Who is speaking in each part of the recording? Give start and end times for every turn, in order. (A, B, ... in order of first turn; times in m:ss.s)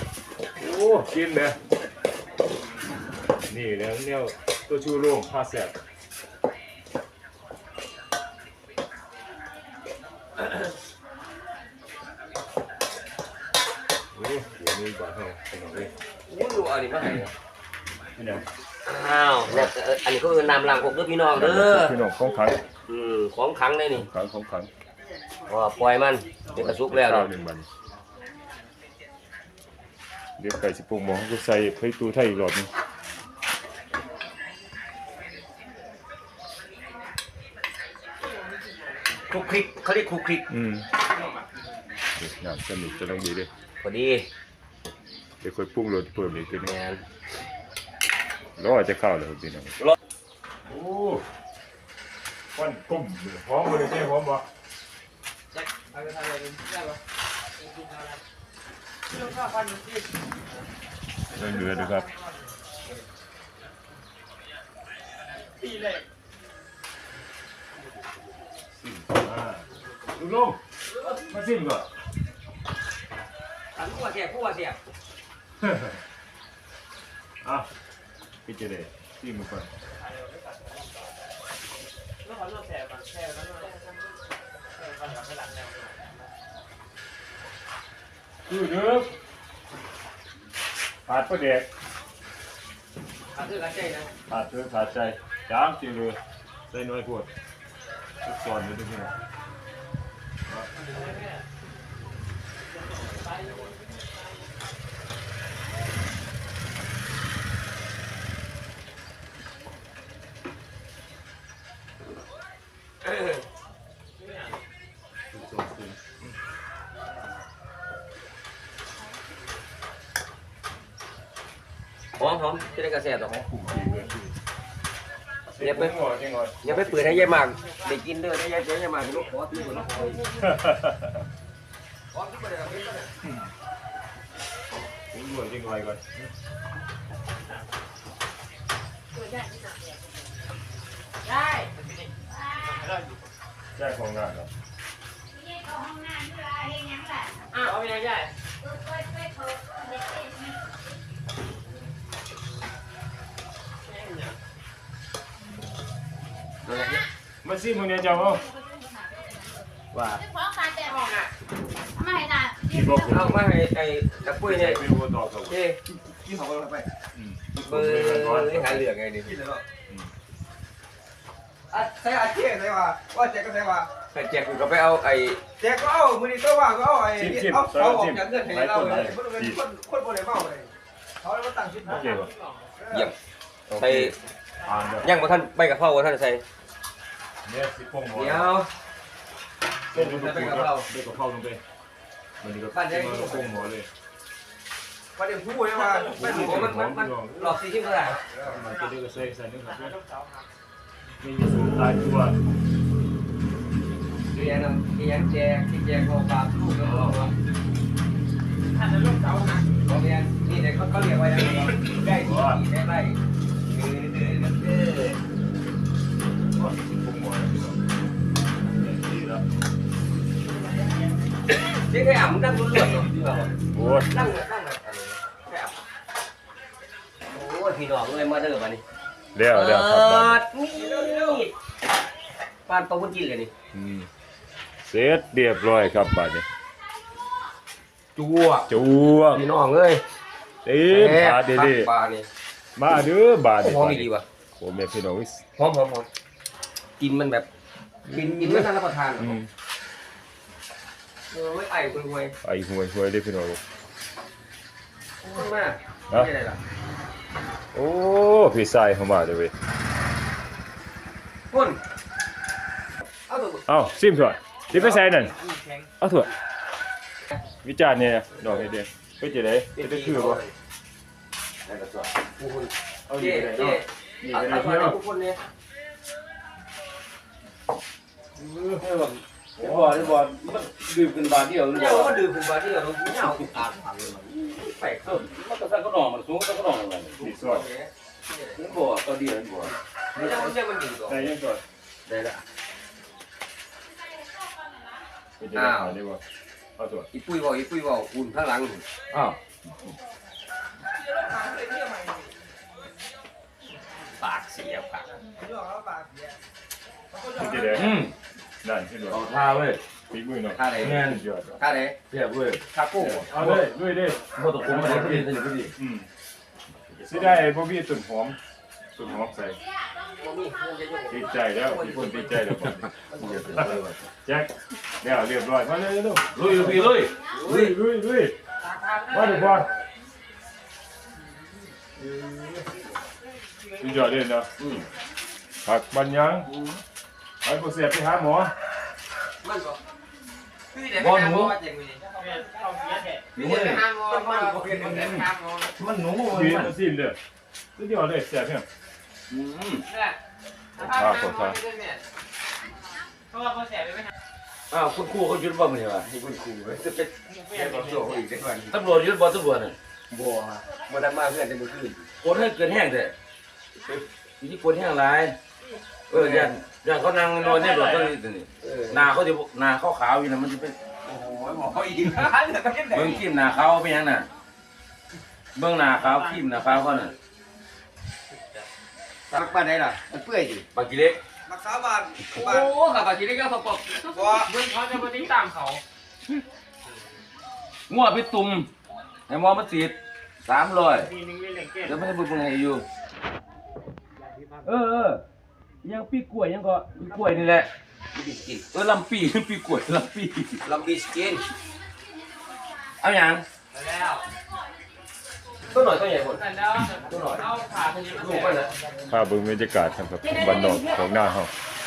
0:00.6-0:01.6 A
0:03.5-0:05.7 A
0:14.1-0:15.9 A
0:16.3-0:17.3 B
0:18.2-0:18.4 A
0:18.8-0:22.0 B
0:21.3-0:22.6 A
0:22.9-0:24.1 B
0:23.9-0:24.7 A
0:25.5-0:27.3 B
0:26.5-0:27.7 A
0:30.4-0:32.7 A
0:39.3-0:40.5 B
0:40.5-0:40.9 A
0:42.2-0:43.5 A
0:43.8-0:44.3 B
0:45.4-0:46.7 A
0:46.6-0:47.0 B
0:48.6-0:49.8 A
0:50.6-0:51.2 A
0:52.5-0:54.4 A
0:55.9-0:56.9 C
0:57.6-0:58.2 C
0:59.1-1:00.1 C
1:01.3-1:02.1 A
1:01.4-1:02.3 C
1:05.6-1:06.0 C
1:09.1-1:10.6 A
1:11.1-1:11.8 A
1:13.7-1:14.8 B
1:15.6-1:16.0 A
1:17.4-1:17.7 A
1:18.4-1:19.7 A
1:19.8-1:21.1 C
1:22.2-1:23.9 C
1:24.7-1:26.3 C
1:28.4-1:29.1 A
1:31.0-1:31.7 A
1:33.3-1:34.1 B
1:34.3-1:36.2 A
1:36.7-1:37.3 A
1:38.2-1:39.1 A
1:40.8-1:41.4 C
1:43.1-1:43.7 C
1:53.0-1:53.4 B
1:54.2-1:54.5 C
1:55.3-1:56.2 A
2:02.2-2:03.4 B
2:03.3-2:04.3 A
2:05.5-2:07.4 A
2:05.6-2:06.0 B
2:06.6-2:10.4 B
2:10.3-2:11.2 A
2:12.1-2:13.1 B
2:13.2-2:13.5 A
2:15.1-2:16.3 A
2:19.2-2:19.9 D
2:21.2-2:23.2 C
2:22.4-2:22.7 D
2:23.8-2:24.5 A
2:25.5-2:27.3 D
2:27.5-2:28.3 C
2:28.6-2:30.3 D
2:33.9-2:34.3 C
2:36.6-2:37.0 B
2:37.4-2:38.4 A
2:39.9-2:40.2 A
2:40.3-2:40.9 D
2:40.7-2:41.3 C
2:42.0-2:43.0 D
2:42.6-2:43.4 A
2:43.0-2:44.8 B
2:44.4-2:45.6 A
2:45.5-2:45.8 B
2:46.2-2:46.8 E
2:47.1-2:48.8 A
2:47.6-2:49.5 B
2:51.7-2:53.9 E
2:54.0-2:55.4 B
2:55.6-3:02.1 E
2:57.1-2:59.6 A
3:01.8-3:02.8 C
3:01.8-3:02.3 A
3:02.8-3:03.1 E
3:03.7-3:05.1 A
3:03.7-3:04.2 B
3:05.0-3:06.4 B
3:07.4-3:08.5 A
3:08.1-3:08.7 B
3:09.9-3:11.6 A
3:09.9-3:10.9 B
3:12.4-3:13.9 A
3:12.7-3:13.7 B
3:15.2-3:16.1 E
3:15.8-3:18.4 B
3:16.1-3:17.6 A
3:18.4-3:19.9 A
3:19.6-3:20.5 C
3:21.2-3:22.4 A
3:24.3-3:27.3 B
3:28.7-3:29.8 C
3:29.8-3:35.2 B
3:32.1-3:32.6 A
3:36.6-3:37.8 A
3:38.6-3:39.4 A
3:41.5-3:43.5 B
3:43.7-3:44.3 A
3:44.1-3:45.8 B
3:47.3-3:48.8 B
3:49.3-3:50.4 A
3:49.5-3:51.5 B
3:52.7-3:53.5 B
3:53.7-3:54.1 A
3:54.8-3:56.4 A
3:58.1-3:58.6 B
3:58.7-3:59.4 A
3:59.3-4:00.0 B
4:00.6-4:01.9 A
4:00.8-4:02.3 B
4:02.8-4:05.4 A
4:03.6-4:04.2 B
4:05.6-4:06.1 B
4:07.0-4:07.5 B
4:08.1-4:08.7 A
4:08.1-4:09.4 B
4:09.2-4:09.5 A
4:11.3-4:12.4 B
4:12.4-4:13.6 A
4:15.2-4:16.6 B
4:17.7-4:19.5 A
4:21.5-4:21.8 B
4:23.3-4:23.6 B
4:23.7-4:25.3 A
4:25.1-4:25.9 C
4:26.0-4:26.3 A
4:27.6-4:30.4 A
4:29.8-4:30.5 B
4:31.6-4:32.2 F
4:32.4-4:35.4 B
4:33.1-4:35.0 A
4:38.4-4:38.8 A
4:38.8-4:42.2 F
4:39.6-4:40.2 A
4:41.7-4:45.2 B
4:45.0-4:47.2 F
4:47.2-4:48.7 B
4:47.2-4:47.6 A
4:48.6-4:49.7 F
4:50.1-4:51.3 B
4:50.2-4:50.5 A
4:51.1-4:51.6 A
4:52.1-4:52.4 B
4:55.4-4:56.2 A
4:55.5-4:56.0 B
4:56.8-4:57.1 A
4:57.1-4:58.8 B
4:59.1-4:59.4 F
5:01.0-5:02.3 E
5:04.2-5:05.1 B
5:05.3-5:06.3 E
5:07.1-5:07.7 E
5:07.3-5:07.9 A
5:07.7-5:08.1 F
5:08.6-5:09.2 A
5:09.1-5:09.8 F
5:10.1-5:11.6 A
5:10.5-5:11.0 B
5:10.8-5:11.2 F
5:11.6-5:12.0 B
5:12.1-5:12.6 F
5:12.7-5:13.3 B
5:13.0-5:16.1 A
5:13.3-5:13.7 F
5:14.3-5:15.7 F
5:16.9-5:17.5 F
5:17.0-5:18.4 A
5:19.0-5:19.6 A
5:19.6-5:20.6 D
5:20.1-5:22.5 B
5:21.1-5:22.9 A
5:22.6-5:24.1 F
5:23.1-5:23.8 B
5:24.2-5:28.4 A
5:26.3-5:27.7 F
5:27.3-5:27.6 B
5:28.6-5:29.7 C
5:29.1-5:29.7 A
5:33.8-5:34.5 A
5:34.6-5:34.9 F
5:35.6-5:36.5 A
5:36.5-5:36.8 B
5:37.4-5:38.5 A
5:39.4-5:39.8 B
5:40.7-5:42.1 B
5:40.9-5:41.6 F
5:42.1-5:45.7 C
5:43.3-5:43.9 F
5:43.4-5:45.2 B
5:44.6-5:46.7 F
5:46.3-5:47.2 A
5:47.8-5:48.6 A
5:49.3-5:49.8 F
5:49.9-5:50.2 C
5:50.8-5:52.0 C
5:50.8-5:51.6 A
5:53.3-5:54.1 C
5:54.7-5:56.1 F
5:56.0-5:58.7 B
5:57.3-5:58.2 C
5:58.7-5:59.8 F
6:00.1-6:02.1 B
6:02.2-6:03.1 F
6:03.9-6:05.4 F
6:06.1-6:10.8 F
6:06.1-6:06.5 B
6:07.6-6:08.0 C
6:08.6-6:09.1 B
6:11.0-6:13.2 B
6:12.9-6:14.3 F
6:15.6-6:17.1 F
6:19.3-6:20.6 B
6:20.7-6:21.2 F
6:21.5-6:22.7 E
6:22.3-6:24.3 B
6:24.1-6:24.5 E
6:24.2-6:25.8 C
6:27.9-6:28.7 F
6:29.3-6:31.1 F
6:30.9-6:32.1 C
6:31.8-6:32.8 F
6:34.2-6:34.6 C
6:34.6-6:35.2 F
6:35.8-6:37.7 F
6:38.1-6:38.6 B
6:38.7-6:40.6 F
6:40.6-6:41.5 B
6:43.0-6:43.4 F
6:43.7-6:44.3 C
6:45.7-6:46.4 B
6:46.3-6:48.8 C
6:47.0-6:47.4 B
6:48.1-6:48.7 B
6:49.1-6:51.5 A
6:50.2-6:51.0 C